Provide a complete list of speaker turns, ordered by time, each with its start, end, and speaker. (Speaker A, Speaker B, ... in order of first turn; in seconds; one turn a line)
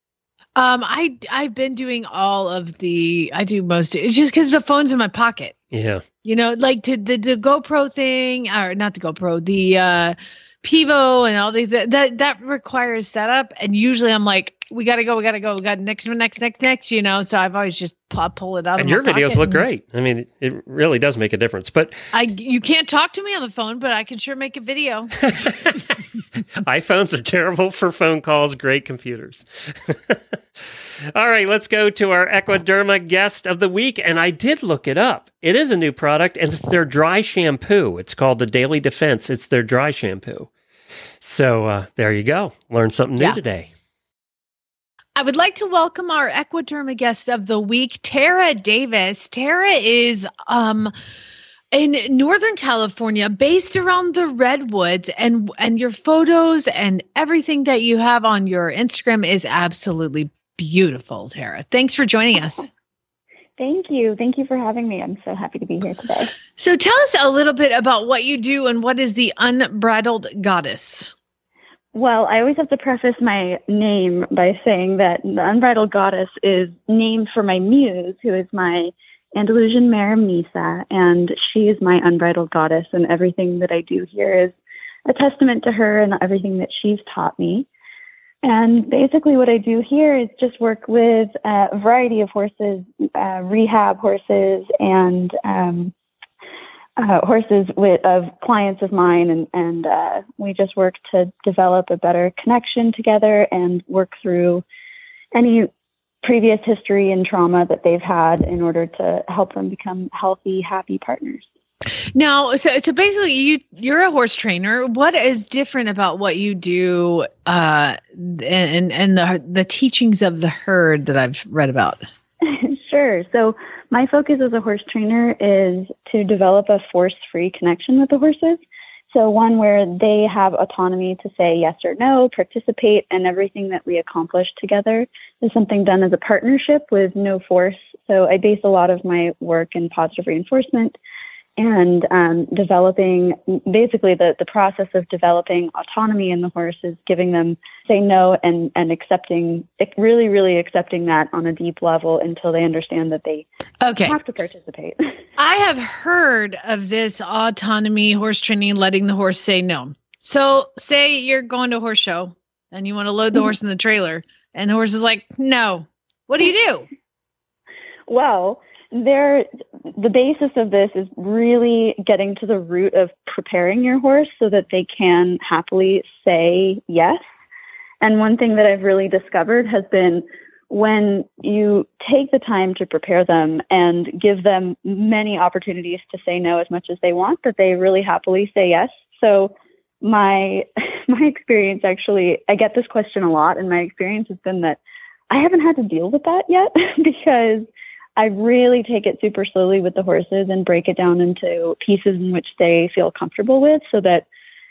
Speaker A: 0.6-5.5
Speaker B: 5.7-6.0
Speaker A: 6.2-19.7
Speaker B: 18.8-22.0
Speaker A: 22.1-25.2
Speaker B: 25.3-25.8
Speaker B: 26.6-30.2
Speaker B: 31.1-40.5
Speaker B: 41.2-43.7
Speaker A: 45.2-50.9
Speaker A: 51.7-62.7
Speaker C: 63.6-66.3
Speaker A: 66.6-71.1
Speaker C: 72.0-84.5
Speaker C: 85.1-87.7
Speaker C: 88.4-95.9
Speaker C: 97.0-104.6
Speaker C: 105.3-105.7
Speaker C: 106.2-111.5
Speaker A: 112.2-122.0
Speaker C: 122.5-141.0
Speaker C: 141.6-153.5
Speaker A: 153.8-154.2
Speaker C: 154.0-155.2
Speaker A: 155.4-166.9
Speaker C: 168.1-177.2
Speaker C: 178.0-194.8
Speaker C: 195.3-204.3